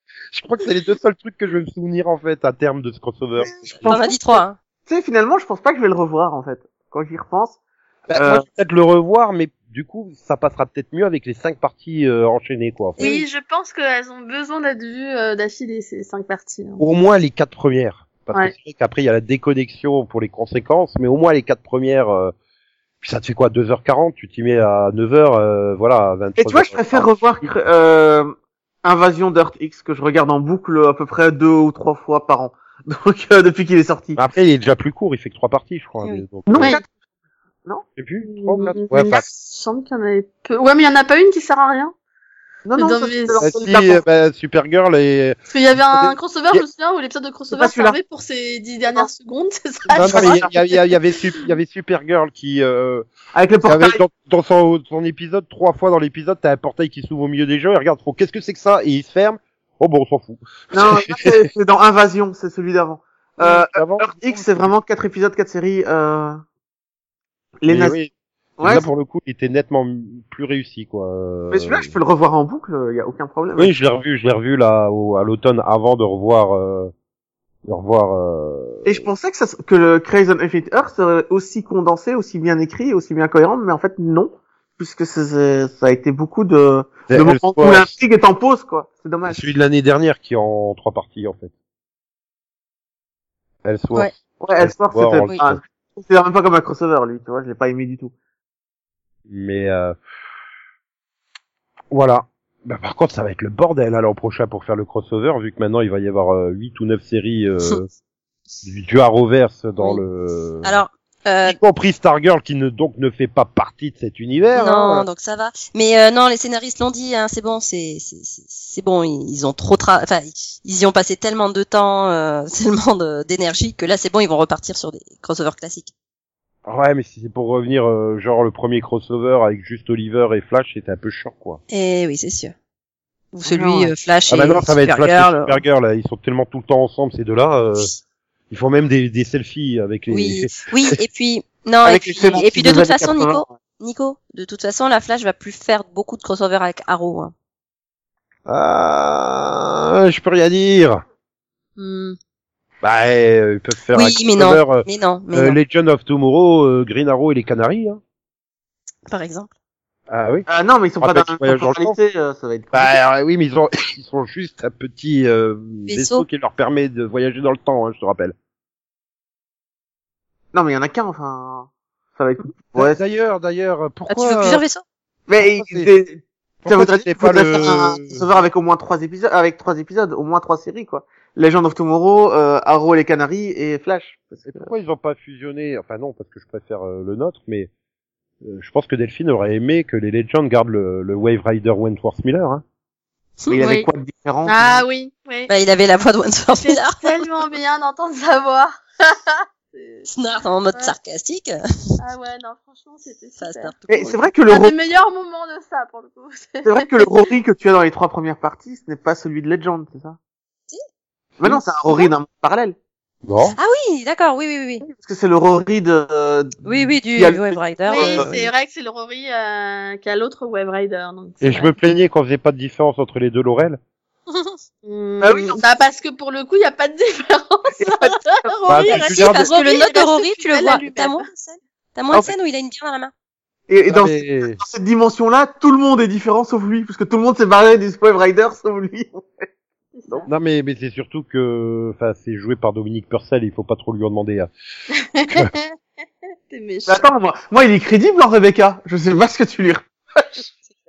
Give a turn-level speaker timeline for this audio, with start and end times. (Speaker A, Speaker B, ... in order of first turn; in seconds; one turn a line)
Speaker A: 0.3-3.9
Speaker B: 3.4-7.6
Speaker C: 3.8-4.6
Speaker A: 8.1-13.0
Speaker B: 8.2-8.4
Speaker C: 13.0-13.2
Speaker D: 13.0-16.8
Speaker A: 16.8-22.3
Speaker A: 23.0-27.2
Speaker B: 26.4-34.2
Speaker A: 34.1-36.8
Speaker B: 36.5-36.9
Speaker A: 38.0-39.2
Speaker D: 38.2-41.9
Speaker B: 42.6-44.0
Speaker D: 42.8-43.4
Speaker A: 43.4-45.4
Speaker D: 45.5-50.8
Speaker A: 45.9-46.6
Speaker B: 47.5-48.0
Speaker B: 49.9-50.6
Speaker A: 49.9-53.1
Speaker B: 53.3-54.0
Speaker A: 53.6-61.4
Speaker B: 60.7-66.4
Speaker A: 63.4-64.7
Speaker B: 67.6-68.0
Speaker A: 67.7-71.9
Speaker B: 68.6-68.8
Speaker B: 71.5-73.7
Speaker A: 73.6-76.9
Speaker A: 77.6-79.1
Speaker B: 78.8-89.5
Speaker A: 87.1-87.9
Speaker A: 89.3-91.5
Speaker A: 93.6-95.6
Speaker B: 94.4-98.1
Speaker A: 99.3-100.0
Speaker A: 101.9-107.9
Speaker A: 108.6-110.8
Speaker C: 109.8-110.0
Speaker C: 110.6-111.6
Speaker A: 111.4-115.0
Speaker C: 114.5-125.9
Speaker A: 126.6-131.6
Speaker C: 131.7-132.5
Speaker C: 133.3-135.6
Speaker B: 133.4-133.9
Speaker A: 134.3-137.9
Speaker A: 138.5-140.7
Speaker C: 140.1-147.3
Speaker B: 141.8-143.5
Speaker A: 148.5-151.0
Speaker C: 151.8-152.2
Speaker A: 152.8-158.0
Speaker C: 153.9-155.6
Speaker C: 159.1-159.5
Speaker A: 160.1-160.4
Speaker B: 160.5-163.0
Speaker A: 161.0-161.9
Speaker A: 162.7-168.3
Speaker C: 165.9-166.2
Speaker B: 170.5-173.0
Speaker A: 172.8-174.6
Speaker C: 174.1-174.8
Speaker B: 175.3-184.7
Speaker A: 175.6-175.9
Speaker A: 176.6-178.2
Speaker A: 184.5-187.7
Speaker A: 188.4-192.6
Speaker B: 193.5-194.8
Speaker D: 193.6-193.9
Speaker D: 194.4-195.5
Speaker C: 195.5-197.3
Speaker D: 196.5-200.1
Speaker C: 200.1-201.6
Speaker D: 202.0-207.2
Speaker C: 203.4-203.7
Speaker B: 203.9-204.7
Speaker B: 206.6-210.2
Speaker B: 211.4-212.7
Speaker A: 213.2-213.6
Speaker C: 213.6-214.8
Speaker B: 214.8-218.3
Speaker C: 216.6-218.3
Speaker D: 217.9-221.7
Speaker A: 221.4-223.8
Speaker C: 224.3-224.6
Speaker D: 224.8-231.2
Speaker B: 225.2-225.6
Speaker B: 227.8-228.5
Speaker A: 228.7-229.5
Speaker C: 228.8-233.1
Speaker B: 233.7-239.4
Speaker A: 233.9-234.6
Speaker D: 240.0-240.3
Speaker A: 240.3-244.5
Speaker D: 245.1-245.6
Speaker D: 246.5-247.0
Speaker B: 246.9-250.5